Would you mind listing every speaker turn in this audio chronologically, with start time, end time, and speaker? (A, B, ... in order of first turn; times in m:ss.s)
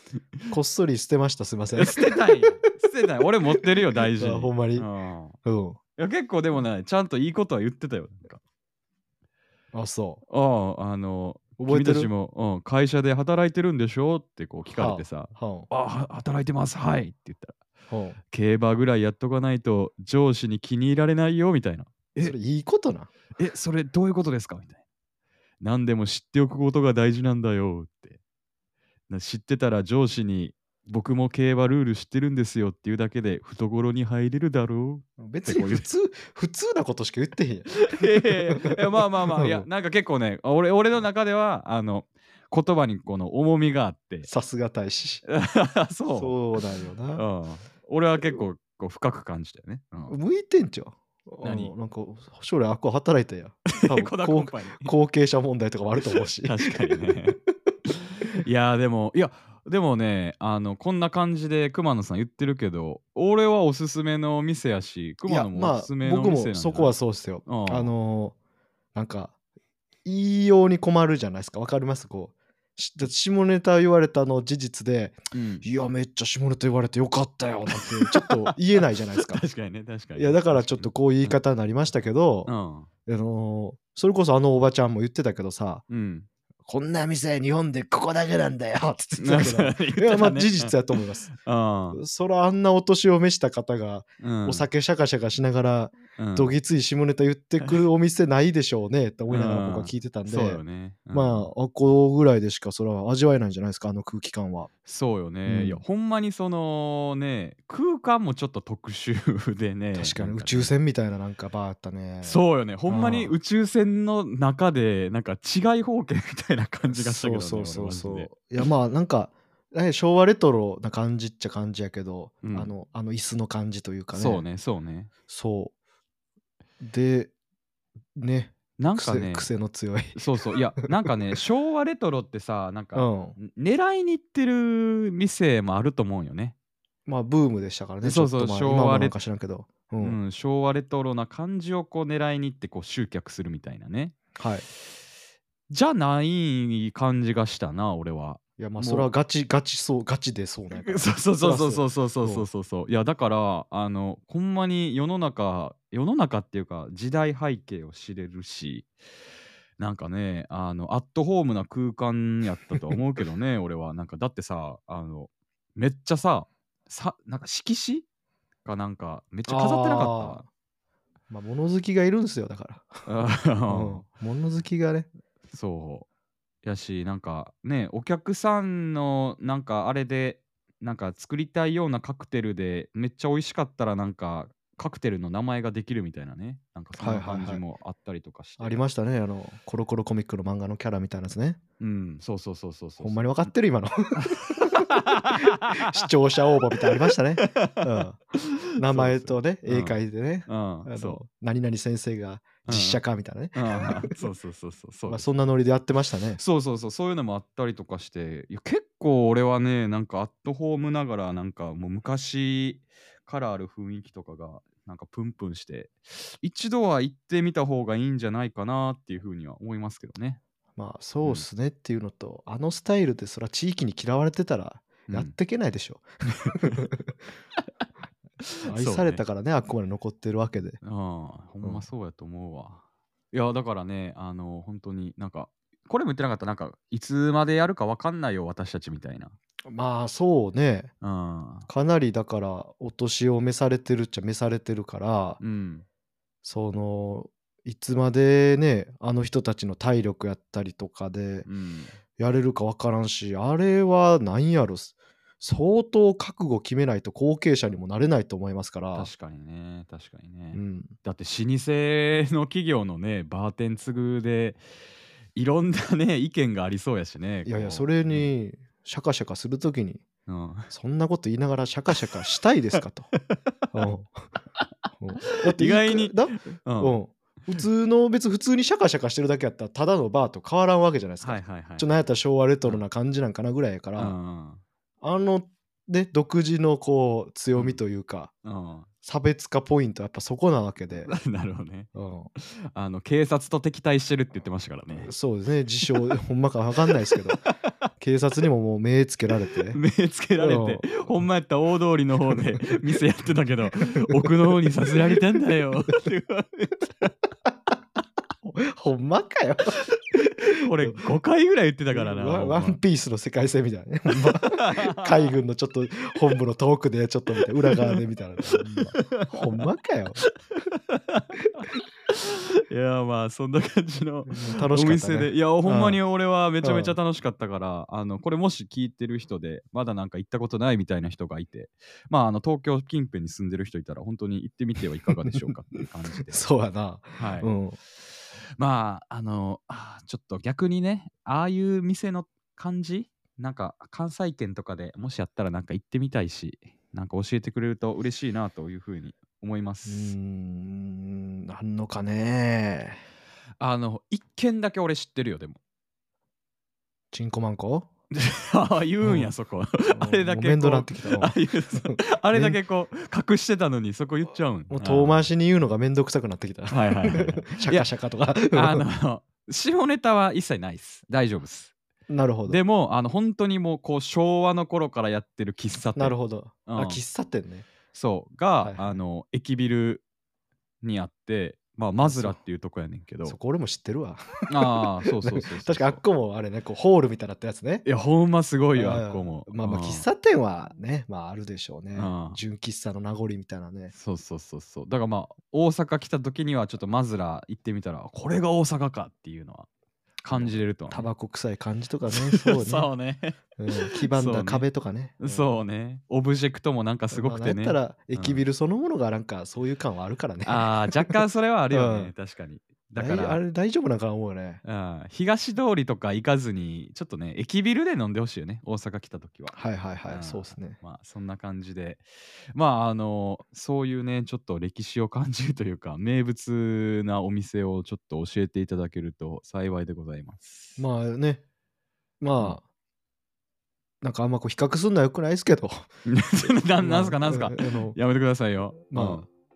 0:00.5-0:02.2 A
0:01.7-0:05.4 B
0:04.2-0:04.9 A
0:05.4-0:05.8 A
0:06.0-0:08.4 B
0:09.7-0:10.2 A
0:10.3-0:17.6 B
0:11.6-0:12.1 A
0:14.7-0:15.7 A
0:17.9-0:18.2 A
0:18.3-0:22.4 B
0:22.2-0:23.1 A
0:23.4-0:24.8 B
0:25.6-0:28.2 B
0:29.1-0:35.9 B
0:35.2-0:38.8 A
0:37.7-0:44.3 B
0:39.3-0:39.7 A
0:44.2-0:45.2 A
0:45.3-0:46.4 B
0:46.2-0:47.2 A
0:47.1-0:50.2 B
0:50.1-0:56.9 A
0:51.4-0:51.7 B
0:53.7-0:54.9 B
0:56.4-1:07.9 B
1:05.3-1:08.4 A
1:08.9-1:09.4 A
1:10.0-1:19.4 A
1:15.3-1:15.6 B
1:17.8-1:18.5 B
1:19.2-1:21.4 B
1:20.2-1:22.5 A
1:22.4-1:22.9 B
1:23.1-1:25.8 A
1:25.9-1:26.3 B
1:26.6-1:31.3 A
1:29.2-1:32.0 B
1:31.9-1:44.7 A
1:34.2-1:34.6 B
1:36.2-1:36.6 B
1:39.3-1:41.5 B
1:44.9-1:50.7 B
1:45.4-1:45.8 A
1:49.9-1:53.4 A
1:52.2-1:58.3 B
1:56.9-2:04.4 A
2:02.4-2:02.7 B
2:04.1-2:05.1 B
2:05.3-2:05.7 A
2:06.8-2:07.3 A
2:08.1-2:10.2 A
2:08.8-2:09.5 B
2:10.1-2:16.5 B
2:10.8-2:11.3 A
2:12.9-2:13.4 A
2:17.0-2:20.2 A
2:18.0-2:19.2 B
2:20.0-2:24.2 B
2:24.4-2:24.6 A
2:25.7-2:29.1 B
2:28.6-2:32.5 A
2:30.7-2:38.9 B
2:39.8-2:48.0 B
2:48.6-2:50.4 B
2:49.4-2:50.4 A
2:51.3-2:53.0 A
2:53.0-2:54.0 B
2:53.7-2:55.1 A
2:55.5-2:56.0 B
2:56.6-3:08.8 B
3:07.0-3:07.6 A
3:08.6-3:11.6 A
3:11.8-3:13.5 B
3:13.0-3:18.2 A
3:14.2-3:16.0 B
3:17.4-3:21.2 B
3:18.8-3:24.1 A
3:22.6-3:23.0 B
3:23.5-3:25.3 B
3:25.1-3:26.4 A
3:26.4-3:40.4 B
3:40.8-3:47.1 A
3:45.1-3:45.3 B
3:46.4-3:46.9 B
3:48.6-3:49.2 B
3:48.7-3:50.8 A
3:50.8-3:59.4 B
3:59.7-4:00.9 A
4:01.0-4:01.7 B
4:01.7-4:05.4 A
4:05.4-4:05.8 B
4:06.4-4:11.5 A
4:11.4-4:12.0 B
4:12.2-4:19.1 A
4:18.9-4:24.6 B
4:20.5-4:20.9 A
4:25.4-4:28.3 B
4:27.4-4:30.0 A
4:30.3-4:30.7 B
4:30.7-4:33.1 A
4:33.3-4:33.7 B
4:33.7-4:34.3 A
4:35.0-4:44.2 A
4:35.2-4:36.9 B
4:41.2-4:42.0 B
4:44.0-4:44.6 B
4:45.0-4:48.3 A
4:47.5-4:47.8 B
4:48.4-4:48.9 B
4:49.0-4:51.1 A
4:51.1-4:55.1 B
4:51.9-4:52.3 A
4:55.0-4:57.5 A
4:58.0-4:59.8 A
4:59.7-5:07.1 B
5:00.4-5:00.9 A
5:04.9-5:05.2 A
5:08.4-5:09.8 A
5:09.7-5:12.8 B
5:11.9-5:20.2 A
5:14.3-5:15.3 B
5:18.7-5:19.6 B
5:20.5-5:36.5 B
5:24.3-5:26.0 A
5:26.6-5:27.0 A
5:35.1-5:35.4 A
5:36.3-5:37.8 A
5:37.2-5:37.5 B
5:38.6-5:50.1 B
5:49.9-5:53.0 A
5:53.6-5:55.6 B
5:57.1-5:57.9 A
5:58.1-6:05.3 B
5:59.0-5:59.3 A
5:59.9-6:02.6 A
6:04.7-6:08.8 A
6:06.7-6:07.9 B
6:08.5-6:11.7 B
6:12.1-6:12.6 A
6:12.5-6:17.0 B
6:16.0-6:17.7 A
6:17.9-6:20.0 B
6:18.6-6:19.0 A
6:20.8-6:23.4 B
6:22.0-6:22.4 A
6:23.2-6:27.8 A
6:24.5-6:26.0 B
6:27.8-6:30.0 B
6:28.7-6:33.9 A
6:31.9-6:32.4 B
6:33.9-6:39.7 B
6:40.2-6:41.1 B
6:40.3-6:42.9 A
6:42.1-6:44.6 B
6:43.6-6:45.5 A
6:45.2-6:48.4 B
6:47.1-6:52.1 A
6:50.4-6:53.4 B
6:53.0-6:54.6 A
6:54.6-7:10.8 B
6:59.5-7:00.8 A
7:10.8-7:11.4 A
7:12.2-7:12.6 A
7:14.0-7:15.9 A
7:16.0-7:19.2 B
7:16.8-7:18.0 A
7:18.9-7:19.2 A